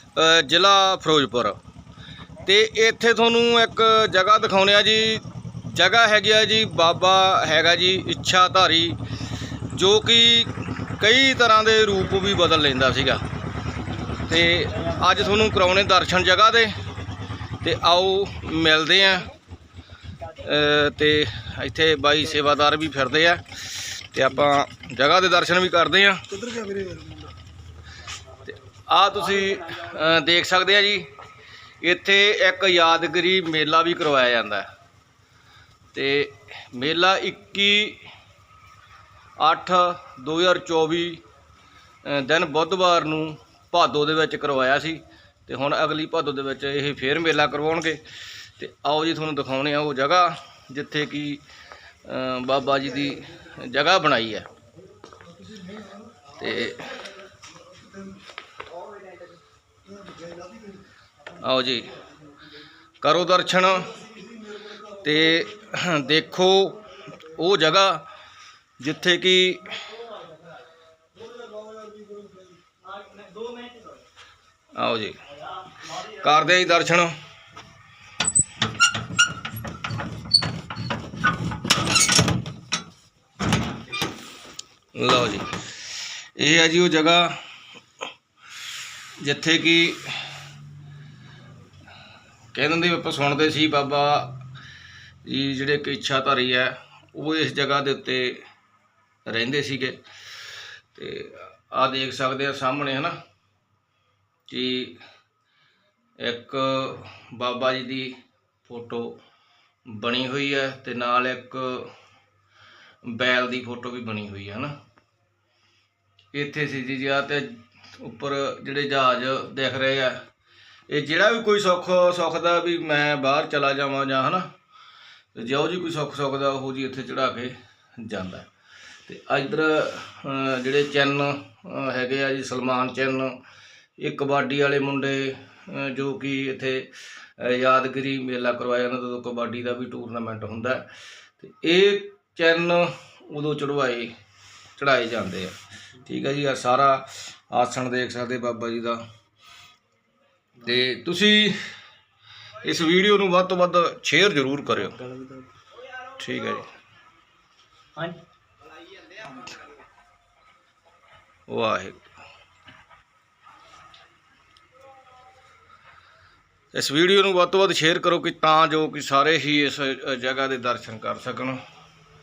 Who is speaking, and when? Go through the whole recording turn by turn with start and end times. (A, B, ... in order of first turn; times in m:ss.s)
0:00.2-0:01.6 A
0:02.4-0:09.0 A
0:09.7-0:13.2 A
0:14.2-0:16.8 A
0:17.6-0:19.3 A
0:20.3-0:26.4 A
0:26.4-0:27.3 B
0:28.5-0:31.1 A
0:31.8-0:34.7 A
0:35.9-0:38.1 A
0:39.4-0:41.2 A
0:42.0-0:48.0 A
0:48.6-0:51.4 A
0:52.0-0:54.5 A
0:55.5-0:56.0 B
0:56.3-0:57.0 A
1:00.0-1:00.6 B
1:01.4-1:01.9 A
1:03.0-1:04.1 A
1:04.8-1:08.1 A
1:08.8-1:10.0 A
1:11.2-1:14.0 B
1:14.8-1:15.3 A
1:15.9-1:17.2 A
1:25.0-1:25.6 A
1:26.4-1:27.4 A
1:29.2-1:30.3 A
1:32.5-1:34.4 A
1:35.2-1:38.4 A
1:39.3-1:40.0 A
1:40.9-1:43.2 A
1:44.5-1:45.0 A
1:46.2-1:49.2 A
1:49.9-1:51.9 A
1:53.1-1:54.7 A
1:56.3-2:00.2 A
2:00.9-2:04.5 A
2:05.4-2:08.5 A
2:09.1-2:13.3 A
2:14.0-2:24.1 A
2:24.8-2:29.0 A
2:30.6-2:31.6 A
2:32.6-2:35.1 A
2:35.0-2:35.5 B
2:36.1-2:36.7 A
2:41.5-2:42.0 A
2:46.7-2:51.6 A